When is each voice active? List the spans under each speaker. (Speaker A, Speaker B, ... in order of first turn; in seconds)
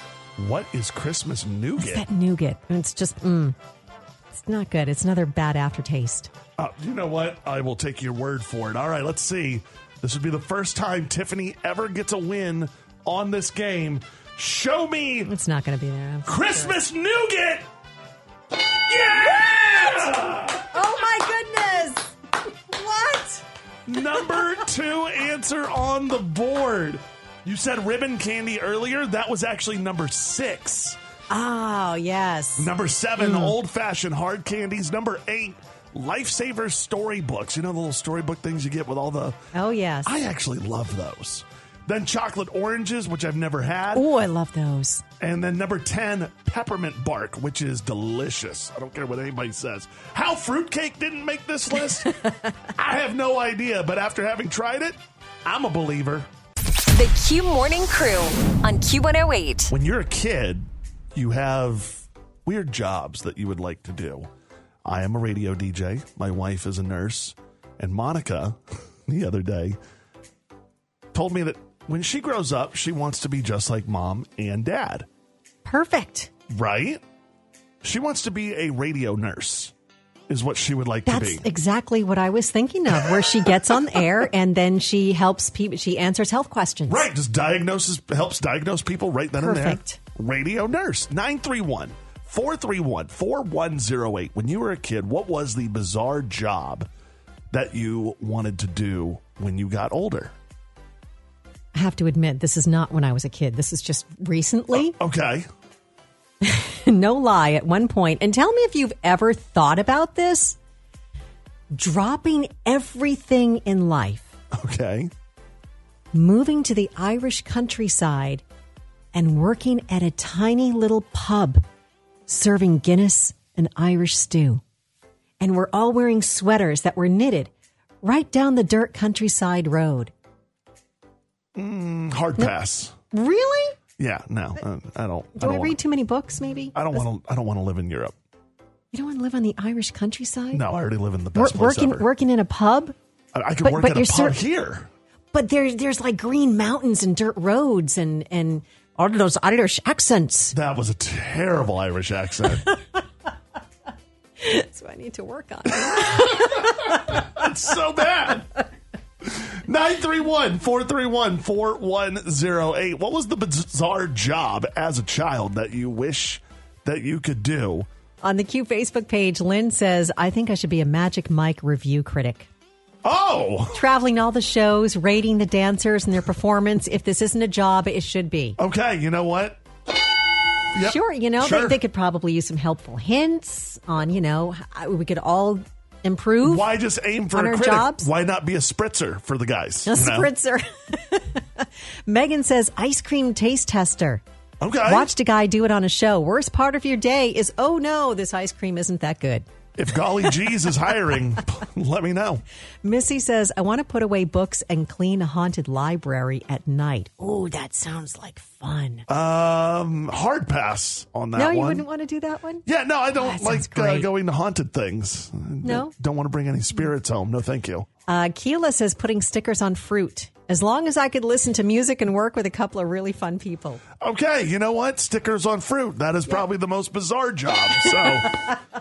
Speaker A: 0.4-2.1, 6.6-15.3, 16.3-17.7, 18.9-20.7, 23.9-31.0, 32.6-39.4, 40.0-44.1, 45.2-56.3, 59.7-64.3, 64.8-69.8, 71.1-75.1, 76.5-77.0, 77.8-79.7, 80.3-81.5, 83.0-84.0, 86.9-96.9, 97.5-100.3, 104.7-105.5, 114.5-115.1, 131.6-132.9, 134.0-135.8, 136.8-138.2, 140.5-142.1, 143.3-144.9, 150.5-152.7, 155.7-158.5, 159.2-167.9, 173.0-173.8, 178.6-179.6, 180.7-181.8, 186.4-190.3, 194.6-195.1, 199.8-202.4, 209.1-211.9, 212.7-217.9, 224.0-228.6
Speaker B: 1.8-3.6, 4.3-6.3, 15.3-16.8, 20.7-22.2, 22.7-23.4, 31.3-33.5, 39.5-40.1, 43.9-45.0, 75.7-76.3, 81.1-87.1, 89.4-90.0, 101.8-105.0, 106.4-110.6, 111.7-114.3, 116.1-118.4, 119.1-121.6, 122.3-124.6, 125.4-127.5, 128.0-130.1, 133.1-133.8, 135.4-137.1, 138.9-140.7, 141.3-142.9, 143.6-144.4, 145.3-150.6, 154.4-157.4, 168.2-172.5, 173.7-178.6, 180.8-186.7, 187.3-188.1, 189.9-194.2, 194.9-199.5, 202.8-209.1, 211.3-214.1, 215.6-215.9, 218.1-223.8
Speaker C: 56.9-59.7